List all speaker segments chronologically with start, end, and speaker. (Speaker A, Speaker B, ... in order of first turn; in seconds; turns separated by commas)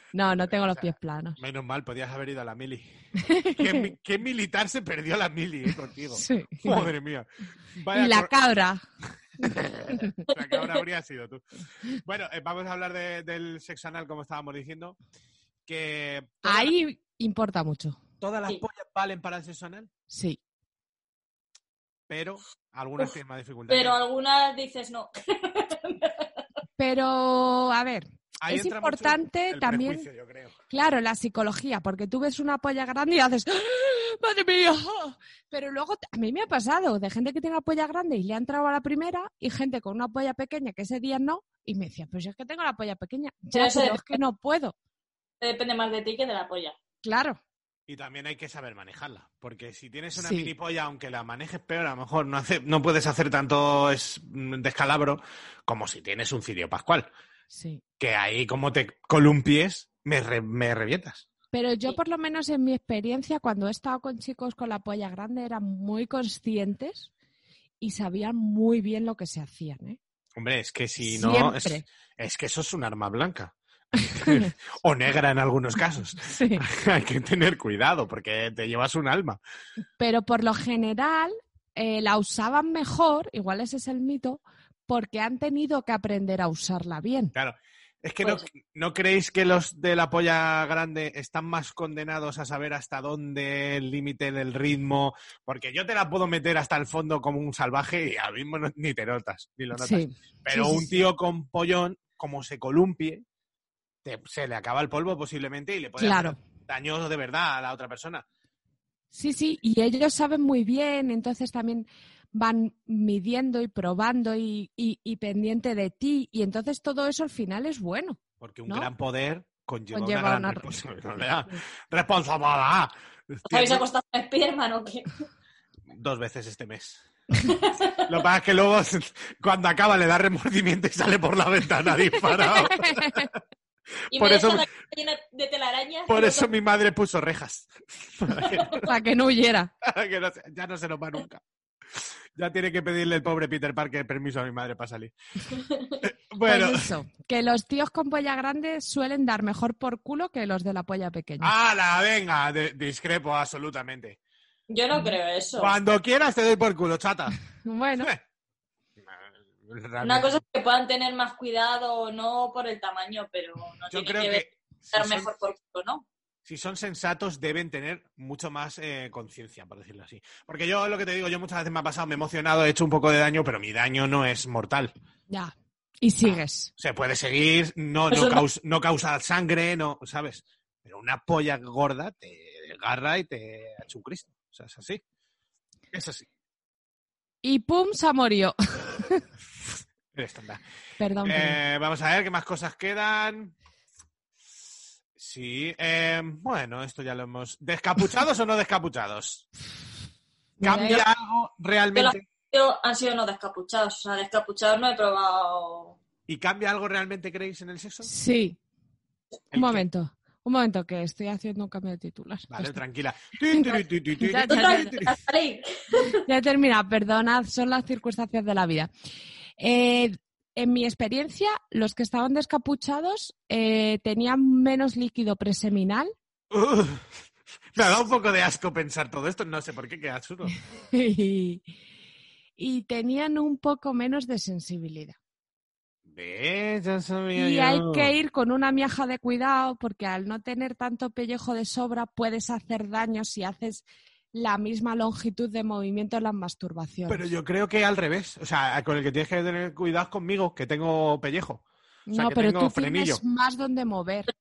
Speaker A: 0.1-1.4, Speaker B: 0.5-2.9, Speaker A: 3.2-3.9, Speaker B: 3.6-8.3, Speaker A: 6.1-6.9, Speaker A: 7.9-8.8, Speaker A: 9.4-10.2, Speaker B: 9.4-15.0, Speaker B: 15.7-16.7, Speaker A: 16.4-18.0, Speaker B: 18.2-19.9, Speaker A: 20.1-20.4, Speaker B: 22.1-24.0, Speaker C: 23.7-26.3, Speaker A: 26.8-30.1, Speaker B: 28.4-30.6, Speaker A: 30.7-44.7, Speaker C: 43.5-44.2, Speaker C: 45.4-46.7, Speaker A: 47.0-47.4, Speaker B: 47.9-57.1, Speaker A: 50.1-50.5, Speaker A: 57.5-57.8, Speaker B: 58.0-61.2, Speaker A: 61.5-67.1, Speaker A: 67.8-70.0, Speaker B: 70.4-79.4, Speaker A: 71.0-71.8, Speaker A: 74.1-74.5, Speaker A: 76.2-76.6, Speaker A: 80.0-87.3, Speaker B: 87.3-103.2, Speaker A: 99.7-101.1, Speaker B: 104.0-108.2, Speaker A: 106.0-106.4, Speaker A: 109.1-118.9, Speaker B: 118.4-123.8, Speaker A: 119.9-120.7, Speaker C: 123.5-125.1, Speaker B: 125.9-127.0, Speaker C: 127.5-128.0, Speaker B: 128.1-133.3, Speaker A: 132.5-133.3, Speaker C: 134.1-136.5, Speaker B: 134.1-134.6, Speaker B: 136.1-138.8, Speaker C: 138.4-138.8, Speaker A: 138.8-139.7, Speaker B: 139.8-141.4, Speaker B: 142.4-145.1, Speaker C: 145.6-146.0, Speaker B: 146.0-146.8, Speaker A: 146.4-151.5, Speaker B: 151.4-154.2, Speaker C: 154.7-155.7, Speaker B: 155.6-157.4, Speaker A: 157.6-158.1, Speaker B: 159.0-160.4, Speaker C: 160.0-166.1, Speaker B: 163.9-165.3, Speaker B: 166.4-174.9, Speaker A: 175.3-176.7, Speaker B: 176.3-185.0, Speaker C: 178.1-178.4, Speaker B: 185.9-186.3, Speaker A: 187.4-189.2, Speaker B: 190.1-190.6, Speaker A: 191.0-191.6, Speaker B: 191.2-193.5, Speaker B: 195.2-199.4, Speaker A: 200.6-201.1, Speaker B: 200.6-202.2, Speaker C: 201.9-206.0, Speaker B: 206.3-208.1, Speaker A: 208.0-208.6, Speaker B: 209.5-209.8, Speaker A: 209.5-212.8, Speaker B: 212.5-215.1, Speaker A: 213.5-215.0, Speaker C: 214.5-216.2, Speaker A: 216.2-218.9, Speaker A: 219.6-226.1, Speaker B: 226.5-227.1, Speaker B: 227.7-230.6, Speaker A: 230.9-231.7, Speaker A: 232.6-235.2, Speaker B: 236.1-238.1, Speaker A: 237.3-247.3, Speaker B: 247.1-253.2, Speaker A: 252.1-254.3